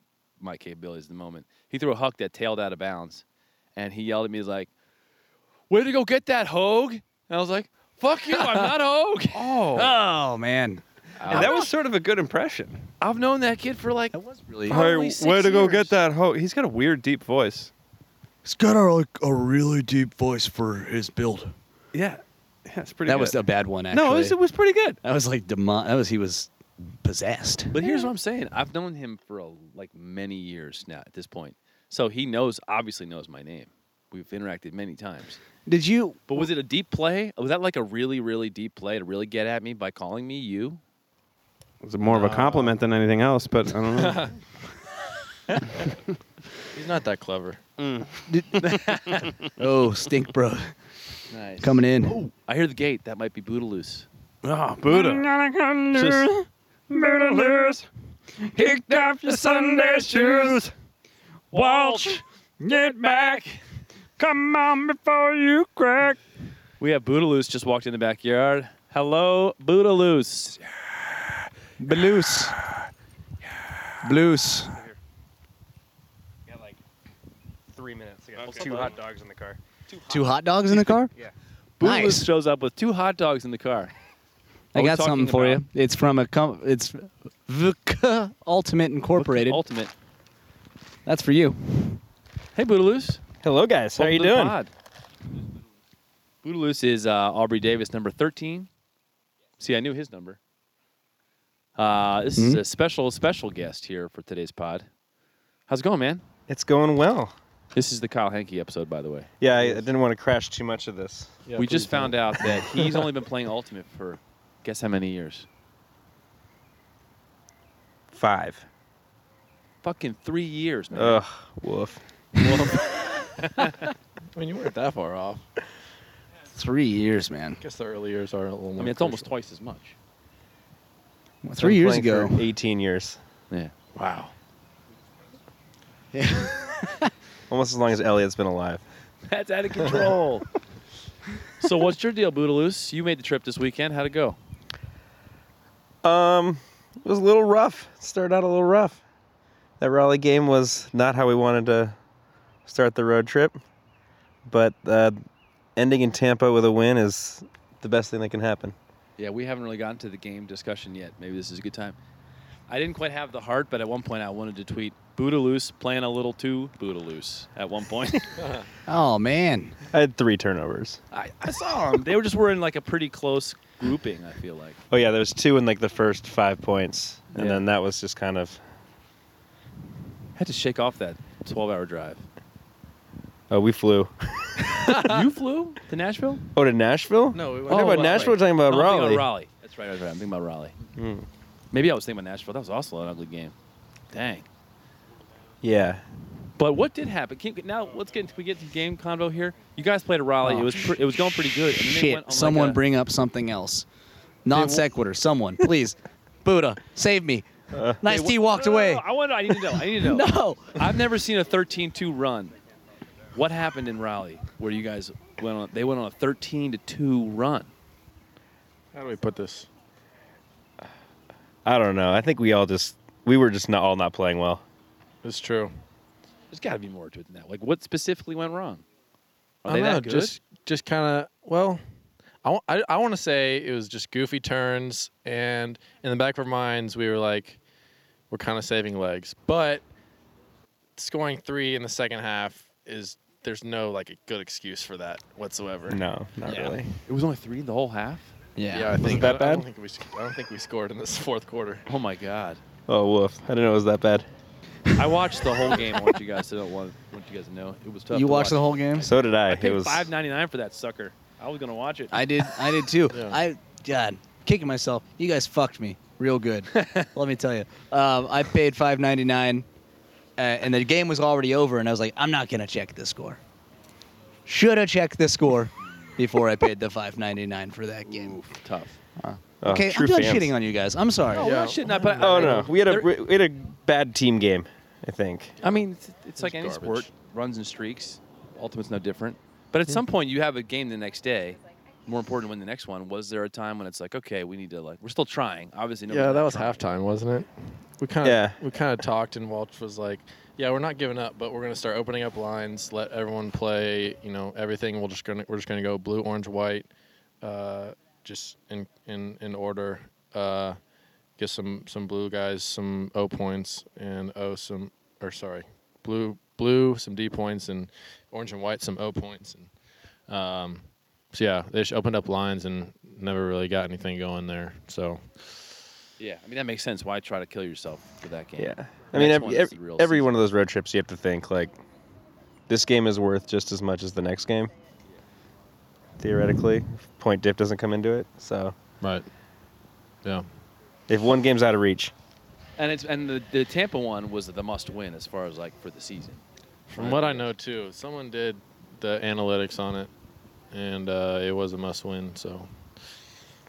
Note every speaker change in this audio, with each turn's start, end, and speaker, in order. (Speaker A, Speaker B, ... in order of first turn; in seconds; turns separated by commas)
Speaker A: 0.4-3.2, Speaker A: 3.8-4.7, Speaker A: 5.7-9.9, Speaker B: 9.4-11.7, Speaker C: 9.4-9.9, Speaker A: 11.2-11.7, Speaker C: 11.3-12.9, Speaker A: 13.0-15.9, Speaker B: 14.1-14.9, Speaker C: 14.7-17.7, Speaker B: 18.4-21.5, Speaker C: 21.9-23.4, Speaker B: 23.1-24.4, Speaker C: 23.9-25.0, Speaker B: 25.0-26.5, Speaker B: 27.0-27.8, Speaker A: 27.7-35.4, Speaker B: 35.7-36.4, Speaker A: 36.3-40.8, Speaker C: 41.8-44.3, Speaker D: 42.0-42.8, Speaker D: 43.9-44.4, Speaker D: 46.7-47.6, Speaker C: 47.8-49.3, Speaker B: 48.3-48.7, Speaker A: 48.6-49.3, Speaker B: 49.6-50.7, Speaker A: 51.3-54.1, Speaker B: 51.6-52.2, Speaker C: 54.4-57.9, Speaker B: 54.9-55.3, Speaker B: 55.9-56.3, Speaker C: 58.5-60.7, Speaker C: 61.5-63.6, Speaker A: 61.5-62.2, Speaker C: 64.2-66.2, Speaker A: 66.8-70.9, Speaker B: 71.8-72.6, Speaker B: 74.0-74.8, Speaker E: 77.7-79.6, Speaker C: 78.4-79.0, Speaker A: 78.4-79.0, Speaker B: 80.1-81.1, Speaker A: 81.8-83.9, Speaker B: 81.8-82.3, Speaker A: 84.7-85.6, Speaker B: 84.7-89.6, Speaker A: 89.2-89.9, Speaker B: 91.1-92.0, Speaker A: 92.5-93.2, Speaker E: 93.4-94.6, Speaker A: 94.0-94.7, Speaker A: 96.4-98.7, Speaker A: 99.6-100.4, Speaker A: 101.8-104.9, Speaker A: 105.7-106.2, Speaker E: 106.5-107.3, Speaker A: 107.8-109.3, Speaker E: 109.4-111.4, Speaker D: 109.6-109.8, Speaker D: 111.5-112.3, Speaker A: 111.6-115.5, Speaker E: 118.2-118.6, Speaker A: 119.8-121.2, Speaker E: 120.9-122.0, Speaker A: 122.4-123.8, Speaker D: 124.3-125.5, Speaker B: 126.5-127.6, Speaker D: 127.6-129.3, Speaker A: 128.8-130.0, Speaker B: 131.4-132.5, Speaker E: 131.6-133.2, Speaker D: 133.9-134.3, Speaker B: 136.1-137.1, Speaker E: 137.5-138.8, Speaker A: 139.3-140.5, Speaker A: 141.6-144.4, Speaker E: 146.0-149.0, Speaker E: 149.8-152.0, Speaker E: 152.7-153.6, Speaker E: 154.5-155.2, Speaker E: 155.8-158.8, Speaker A: 159.2-162.0, Speaker A: 162.7-168.5, Speaker D: 168.4-168.7, Speaker B: 168.9-169.8, Speaker E: 169.9-171.0, Speaker A: 171.1-174.8, Speaker E: 174.9-178.6, Speaker A: 177.3-177.7, Speaker A: 180.4-182.2, Speaker E: 183.5-184.9, Speaker A: 184.9-186.5, Speaker E: 186.6-189.2, Speaker D: 187.3-188.3, Speaker A: 187.7-190.8, Speaker E: 190.9-191.3, Speaker A: 191.7-193.5, Speaker A: 194.1-194.5, Speaker E: 195.6-196.0, Speaker A: 196.6-202.8, Speaker B: 200.4-203.9, Speaker B: 204.5-207.5, Speaker E: 207.7-208.0, Speaker B: 208.0-209.0, Speaker A: 208.1-212.6, Speaker B: 209.9-210.8, Speaker A: 213.3-217.7, Speaker D: 218.9-219.7, Speaker E: 221.7-224.6, Speaker D: 225.2-225.7, Speaker A: 226.5-228.8, Speaker A: 229.7-230.4, Speaker D: 229.7-231.8, Speaker D: 232.4-237.6, Speaker D: 238.3-239.8, Speaker D: 241.0-246.0, Speaker E: 245.9-247.0, Speaker A: 246.5-248.4, Speaker B: 248.6-249.0, Speaker D: 248.7-251.9, Speaker E: 249.0-249.7, Speaker A: 251.9-252.6, Speaker E: 252.9-254.3, Speaker A: 255.0-262.9, Speaker B: 258.1-259.1, Speaker E: 259.0-260.1, Speaker B: 262.1-269.7, Speaker D: 263.1-263.4, Speaker A: 266.7-267.1, Speaker B: 270.4-273.4, Speaker B: 274.5-278.4, Speaker A: 278.1-279.0, Speaker B: 279.2-281.5, Speaker E: 279.6-280.5, Speaker A: 281.3-283.1, Speaker D: 281.3-282.7, Speaker E: 282.2-285.6, Speaker D: 285.6-287.1, Speaker A: 285.6-296.9, Speaker D: 296.1-306.9, Speaker E: 298.2-298.6, Speaker D: 307.4-310.8, Speaker D: 311.4-319.7, Speaker D: 320.3-325.3, Speaker A: 326.2-330.3, Speaker E: 328.6-331.8, Speaker E: 332.7-334.7, Speaker E: 336.2-338.8, Speaker D: 339.0-339.3, Speaker E: 341.1-342.1, Speaker A: 342.8-346.4, Speaker D: 346.9-350.1, Speaker A: 347.0-347.5, Speaker D: 350.7-352.7